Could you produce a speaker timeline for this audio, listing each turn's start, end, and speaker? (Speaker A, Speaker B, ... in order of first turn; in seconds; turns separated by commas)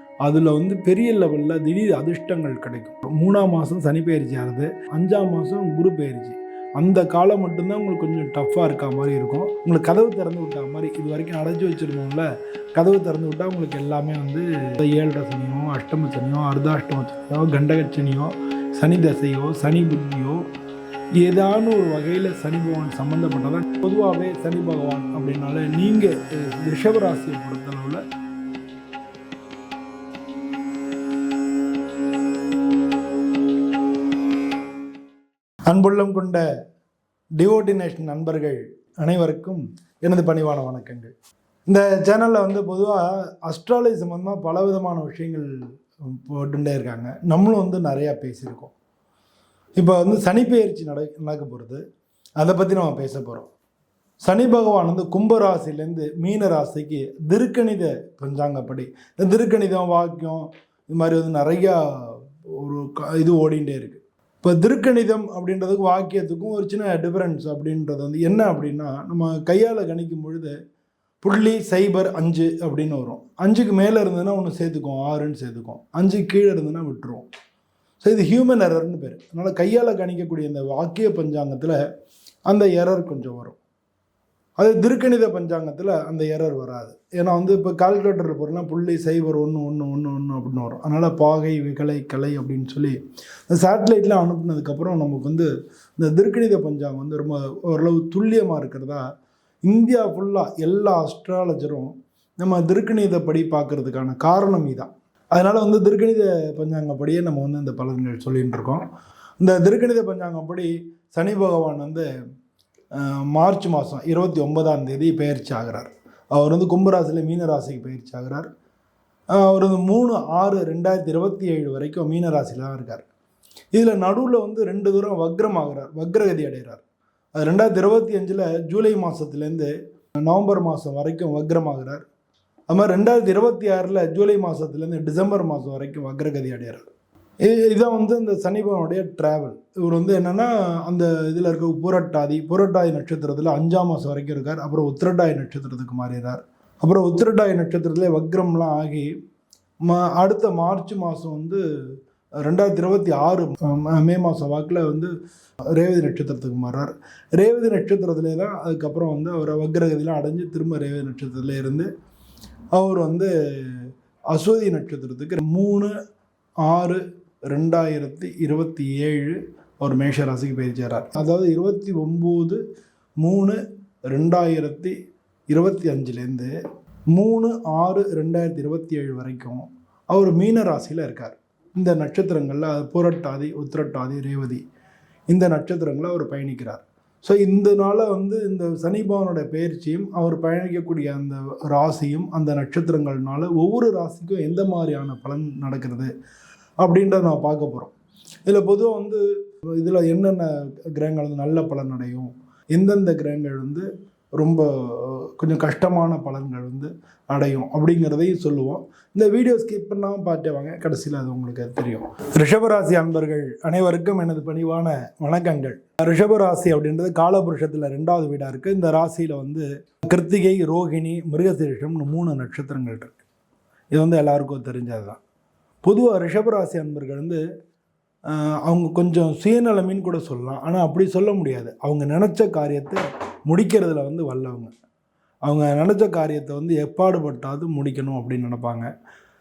Speaker A: 0.2-20.4, Speaker A: 21.2-28.0, Speaker A: 35.7-36.4, Speaker A: 37.4-41.1, Speaker A: 41.7-45.5, Speaker A: 46.1-48.7, Speaker A: 49.8-51.8, Speaker A: 52.4-53.5, Speaker A: 54.2-70.5, Speaker A: 71.2-77.2, Speaker A: 78.0-81.8, Speaker A: 82.5-83.6, Speaker A: 84.6-93.0, Speaker A: 93.5-99.0, Speaker A: 99.7-108.8, Speaker A: 109.4-112.0, Speaker A: 112.9-118.5, Speaker A: 119.3-123.0, Speaker A: 123.7-126.8, Speaker A: 127.3-129.7, Speaker A: 130.2-132.1, Speaker A: 132.7-136.9, Speaker A: 137.4-149.1, Speaker A: 149.8-151.6, Speaker A: 152.4-155.1, Speaker A: 155.7-161.9, Speaker A: 162.7-165.9, Speaker A: 166.6-172.6, Speaker A: 173.2-174.9, Speaker A: 175.5-176.5, Speaker A: 177.1-184.6, Speaker A: 185.3-196.1, Speaker A: 196.8-197.9, Speaker A: 198.4-199.2, Speaker A: 199.8-223.2, Speaker A: 223.9-225.2, Speaker A: 225.8-227.4, Speaker A: 228.3-234.7, Speaker A: 235.4-238.9